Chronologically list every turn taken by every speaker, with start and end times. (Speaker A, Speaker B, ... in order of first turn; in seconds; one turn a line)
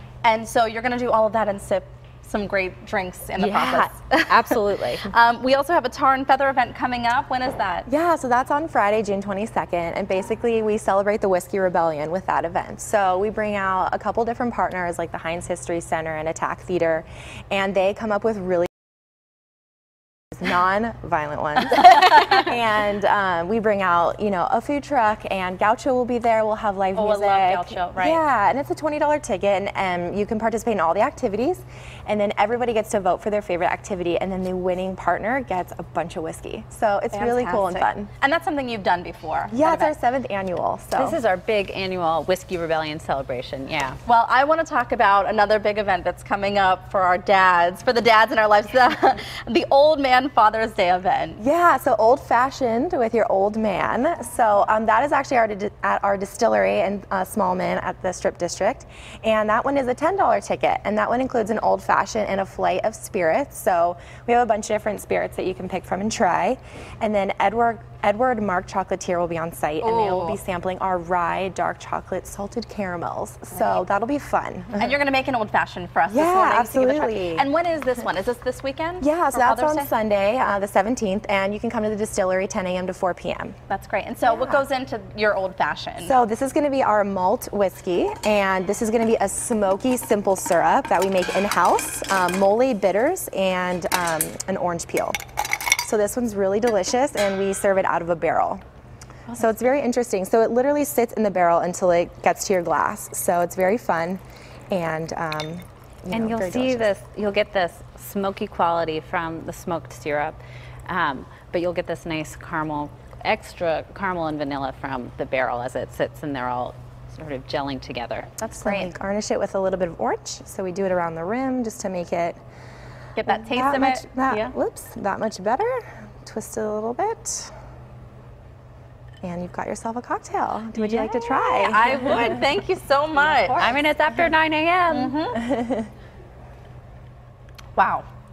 Speaker A: 0.2-7.9
Speaker B: 3.4-5.1
Speaker C: 7.9-18.7
Speaker C: 20.3-38.1
Speaker A: 21.8-22.4
Speaker A: 26.9-28.2
Speaker A: 37.1-39.9
Speaker C: 39.5-41.2
Speaker B: 40.9-44.0
Speaker A: 44.0-51.4
Speaker C: 51.4-74.9
Speaker A: 69.8-70.4
Speaker A: 74.8-79.9
Speaker C: 76.1-77.5
Speaker C: 79.0-83.5
Speaker A: 83.7-86.1
Speaker C: 84.2-84.6
Speaker C: 86.0-95.2
Speaker C: 95.8-98.6
Speaker C: 99.3-104.2
Speaker C: 104.7-106.9
Speaker B: 106.1-118.3
Speaker A: 118.4-118.9
Speaker C: 118.5-122.4
Speaker A: 123.2-124.5
Speaker C: 123.3-127.5
Speaker C: 129.2-132.4
Speaker A: 130.8-133.8
Speaker B: 133.3-135.1
Speaker A: 134.9-135.5
Speaker C: 135.3-135.9
Speaker A: 137.8-138.0